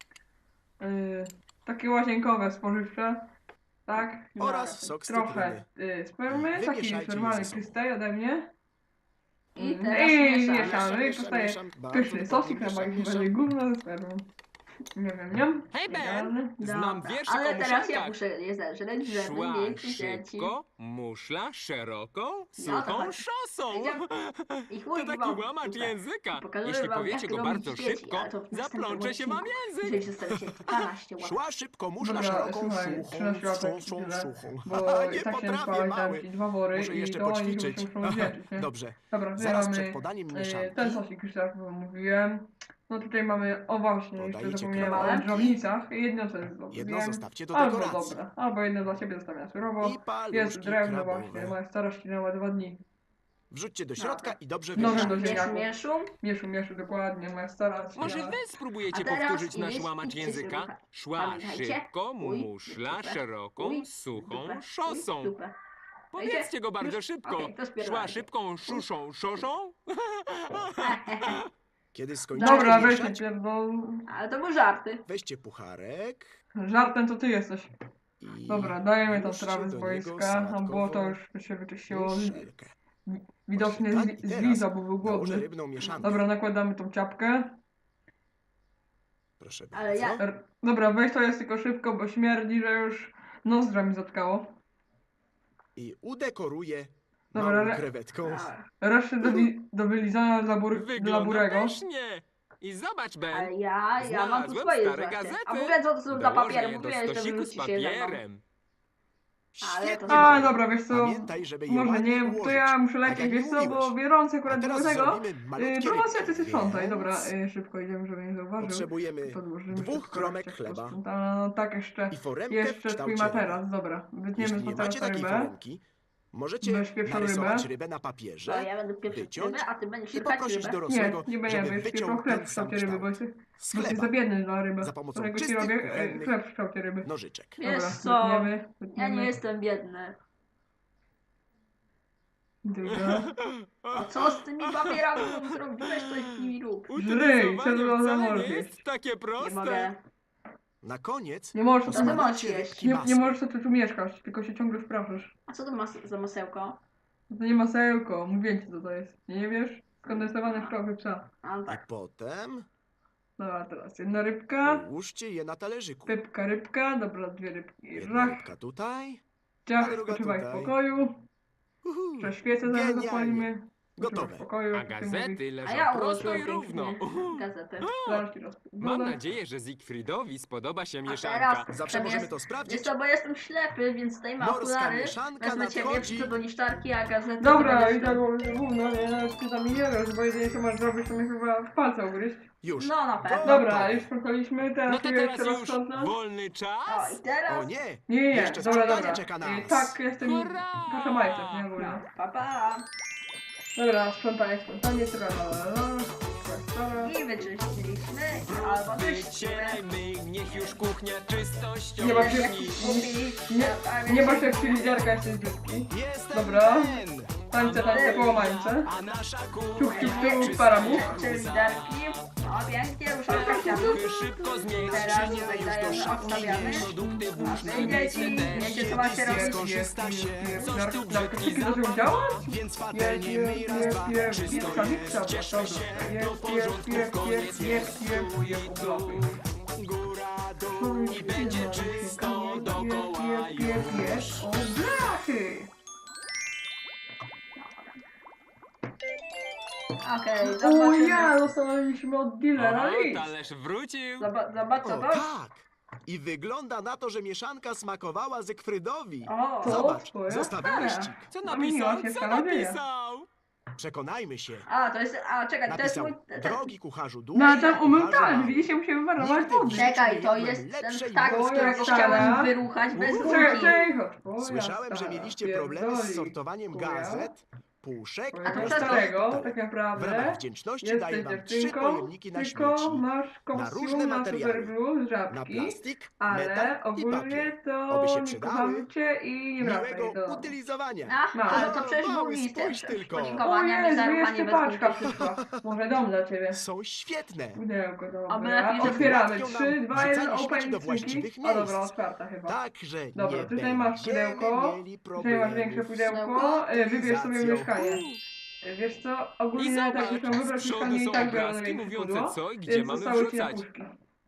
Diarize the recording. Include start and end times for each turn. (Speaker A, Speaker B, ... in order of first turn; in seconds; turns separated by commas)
Speaker A: 0.8-3.3, Speaker A: 3.9-4.3, Speaker B: 4.3-4.9, Speaker C: 4.4-5.7, Speaker A: 5.0-8.5, Speaker C: 6.3-7.8, Speaker B: 9.5-11.3, Speaker A: 9.6-14.3, Speaker C: 10.5-13.3, Speaker A: 14.9-16.6, Speaker D: 15.7-18.1, Speaker B: 16.6-20.5, Speaker D: 19.0-30.1, Speaker B: 22.6-24.0, Speaker B: 24.7-31.4, Speaker C: 31.2-41.0, Speaker A: 32.0-52.8, Speaker C: 44.1-45.5, Speaker B: 44.8-45.6, Speaker C: 46.7-48.2, Speaker C: 49.8-51.6, Speaker C: 53.5-55.4, Speaker B: 54.0-56.1, Speaker A: 54.8-58.4, Speaker D: 57.9-65.3, Speaker B: 58.9-65.5, Speaker D: 66.1-71.4, Speaker B: 66.2-68.8, Speaker B: 70.8-71.4, Speaker C: 71.9-73.2, Speaker B: 72.3-72.9, Speaker A: 72.3-74.0, Speaker B: 74.1-75.0, Speaker C: 75.0-76.3, Speaker A: 76.5-77.7, Speaker C: 78.2-81.2, Speaker A: 78.5-82.4, Speaker C: 81.9-82.7, Speaker A: 83.1-85.5, Speaker C: 83.5-86.2, Speaker B: 85.8-86.2, Speaker A: 86.0-87.5, Speaker C: 89.4-90.2, Speaker B: 89.7-90.2, Speaker A: 90.2-94.5, Speaker C: 95.8-98.5, Speaker A: 97.3-97.9, Speaker B: 98.2-98.7, Speaker A: 98.8-101.8, Speaker D: 100.7-108.4, Speaker B: 103.3-108.2, Speaker C: 109.5-113.9, Speaker B: 109.6-110.6, Speaker A: 110.1-125.5, Speaker C: 114.5-117.3, Speaker C: 118.6-121.0, Speaker C: 122.1-123.6, Speaker C: 124.3-134.2, Speaker A: 126.6-127.7, Speaker B: 128.4-130.8, Speaker A: 130.9-137.1, Speaker C: 134.8-136.4, Speaker C: 137.0-137.6, Speaker B: 137.6-140.2, Speaker A: 137.6-139.3, Speaker A: 142.6-143.3, Speaker D: 142.9-149.9, Speaker B: 143.9-146.9, Speaker A: 146.9-148.7, Speaker B: 149.4-150.0, Speaker C: 150.8-153.4, Speaker A: 151.5-152.2, Speaker B: 151.9-152.9, Speaker A: 152.7-155.3, Speaker B: 155.5-156.8, Speaker A: 157.3-161.3, Speaker B: 160.0-160.7, Speaker B: 161.4-161.8, Speaker C: 161.7-162.7, Speaker A: 163.4-164.8, Speaker C: 164.6-166.2, Speaker A: 166.1-168.5, Speaker C: 167.9-169.2, Speaker A: 169.7-171.2, Speaker C: 169.8-170.7, Speaker C: 171.8-174.4, Speaker A: 172.2-175.4, Speaker D: 174.7-178.2, Speaker B: 175.6-177.9, Speaker A: 176.2-176.4, Speaker A: 178.0-179.2, Speaker D: 178.8-181.7, Speaker B: 181.1-188.2, Speaker C: 181.7-182.9, Speaker C: 184.4-186.3, Speaker A: 187.4-192.5, Speaker C: 192.6-194.1, Speaker B: 192.8-193.7, Speaker A: 193.4-196.1, Speaker D: 194.9-197.2, Speaker B: 196.9-197.7, Speaker C: 197.5-199.9, Speaker A: 198.1-202.0, Speaker D: 200.2-201.7, Speaker B: 201.8-202.8, Speaker A: 203.8-207.1, Speaker B: 207.0-209.8, Speaker D: 208.4-213.0, Speaker B: 210.4-210.8, Speaker A: 212.0-218.9, Speaker B: 212.0-215.1, Speaker C: 215.9-218.2, Speaker B: 217.6-218.7, Speaker C: 218.8-221.4, Speaker A: 219.8-221.2, Speaker B: 219.9-229.7, Speaker D: 219.9-222.1, Speaker D: 223.3-229.1, Speaker A: 223.3-224.1, Speaker C: 225.0-226.9, Speaker A: 226.3-239.4, Speaker C: 228.5-230.8, Speaker D: 230.6-232.5, Speaker C: 232.4-235.4, Speaker D: 234.2-244.5, Speaker C: 237.4-237.8, Speaker A: 240.6-245.7, Speaker B: 247.6-248.0, Speaker B: 250.0-251.4, Speaker A: 250.4-253.3, Speaker D: 252.5-254.3, Speaker B: 254.2-255.3, Speaker C: 254.8-261.3, Speaker B: 259.2-259.9, Speaker A: 259.6-262.8, Speaker B: 260.6-261.1, Speaker D: 261.3-263.3, Speaker C: 263.8-264.7, Speaker B: 264.7-266.7, Speaker C: 265.6-272.3, Speaker B: 267.3-267.8, Speaker A: 267.3-269.9, Speaker B: 269.7-273.9, Speaker A: 271.2-272.5, Speaker C: 272.9-273.7, Speaker A: 273.2-277.3, Speaker C: 274.4-284.7, Speaker A: 278.3-290.5, Speaker B: 278.4-279.1, Speaker C: 285.3-288.9, Speaker C: 289.6-293.5, Speaker B: 291.1-295.2, Speaker A: 291.3-291.7, Speaker A: 293.2-296.6, Speaker C: 296.5-297.6, Speaker A: 297.5-302.6, Speaker B: 298.3-299.2, Speaker C: 298.8-301.9, Speaker C: 302.4-306.1, Speaker A: 303.1-308.0, Speaker B: 306.1-306.7, Speaker C: 306.7-307.8, Speaker D: 307.8-308.1, Speaker A: 308.6-313.9, Speaker D: 309.5-313.6